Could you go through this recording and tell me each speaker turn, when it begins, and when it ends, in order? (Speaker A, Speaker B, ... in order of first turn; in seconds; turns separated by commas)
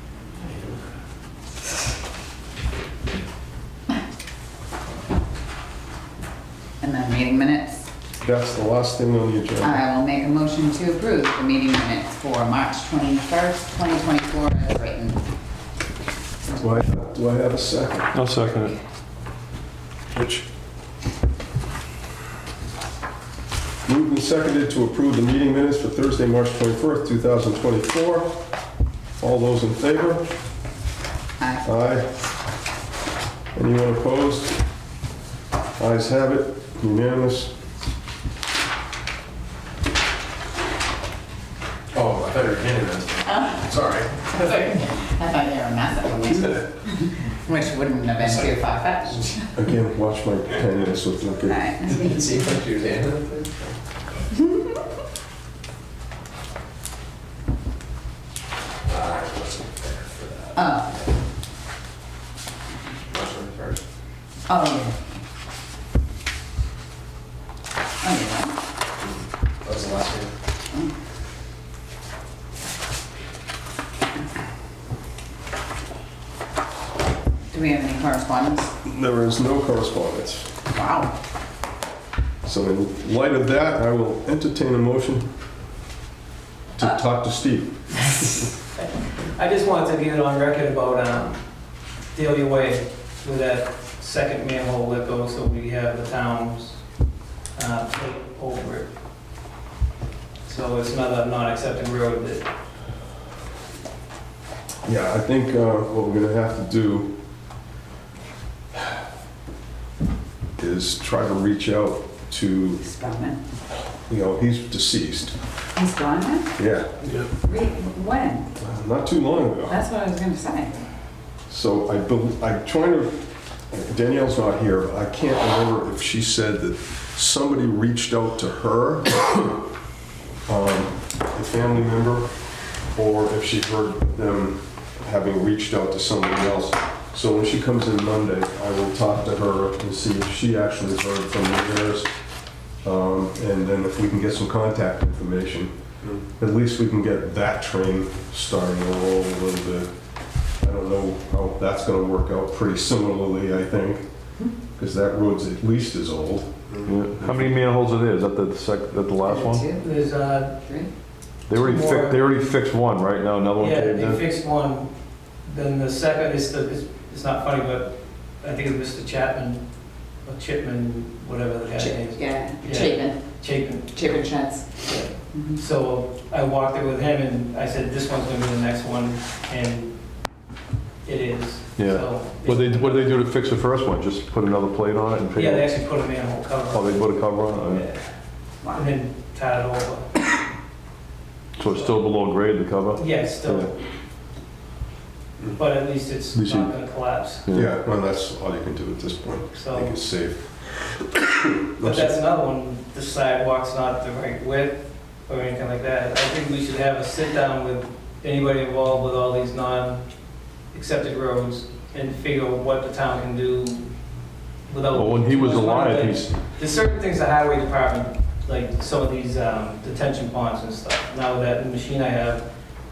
Speaker A: 0.4-0.8, Speaker B: 6.8-7.8, Speaker C: 8.2-9.7, Speaker B: 9.6-15.2, Speaker C: 16.6-18.1, Speaker D: 18.1-18.7, Speaker C: 20.1-20.4, Speaker C: 23.9-28.4, Speaker C: 29.2-30.2, Speaker B: 31.4-31.6, Speaker C: 31.6-32.1, Speaker C: 33.5-34.6, Speaker C: 35.8-37.5, Speaker A: 41.9-44.8, Speaker B: 44.5-49.5, Speaker C: 49.5-51.6, Speaker B: 51.5-52.1, Speaker A: 51.8-53.8, Speaker A: 58.9-61.0, Speaker B: 60.5-60.9, Speaker A: 63.1-63.8, Speaker B: 64.5-65.2, Speaker B: 68.0-68.6, Speaker A: 69.6-70.3, Speaker B: 77.5-78.7, Speaker C: 78.8-80.5, Speaker B: 80.7-81.1, Speaker C: 82.4-85.3, Speaker C: 86.8-88.0, Speaker E: 88.8-91.4, Speaker E: 92.1-96.8, Speaker E: 97.5-98.9, Speaker E: 100.4-102.5, Speaker C: 104.8-107.1, Speaker C: 110.6-112.8, Speaker B: 112.8-113.4, Speaker C: 114.1-115.4, Speaker B: 115.8-116.5, Speaker C: 116.6-117.0, Speaker B: 117.4-118.5, Speaker C: 118.6-119.8, Speaker B: 119.7-120.8, Speaker C: 121.5-129.6, Speaker C: 130.5-132.3, Speaker C: 132.9-142.1, Speaker C: 142.8-145.7, Speaker C: 146.3-149.9, Speaker C: 150.6-154.0, Speaker C: 154.8-156.7, Speaker D: 156.8-159.7, Speaker C: 157.2-157.5, Speaker B: 159.2-159.9, Speaker E: 159.8-160.5, Speaker B: 160.6-160.9, Speaker D: 161.5-164.2, Speaker E: 161.5-162.5, Speaker E: 163.6-164.9, Speaker E: 165.4-169.6, Speaker E: 170.2-174.3, Speaker B: 171.8-173.2, Speaker B: 173.9-175.6, Speaker E: 174.8-179.9, Speaker E: 181.0-183.2, Speaker D: 181.8-185.7, Speaker E: 185.3-188.1, Speaker D: 186.7-187.8, Speaker E: 188.7-190.3, Speaker D: 191.6-193.7, Speaker E: 191.7-192.0, Speaker E: 192.9-193.7, Speaker E: 195.5-197.4, Speaker D: 196.3-196.7, Speaker D: 197.5-197.7, Speaker C: 197.5-202.1, Speaker E: 199.5-199.9, Speaker E: 201.8-210.0, Speaker E: 210.7-213.8, Speaker E: 214.7-222.4, Speaker D: 214.9-216.3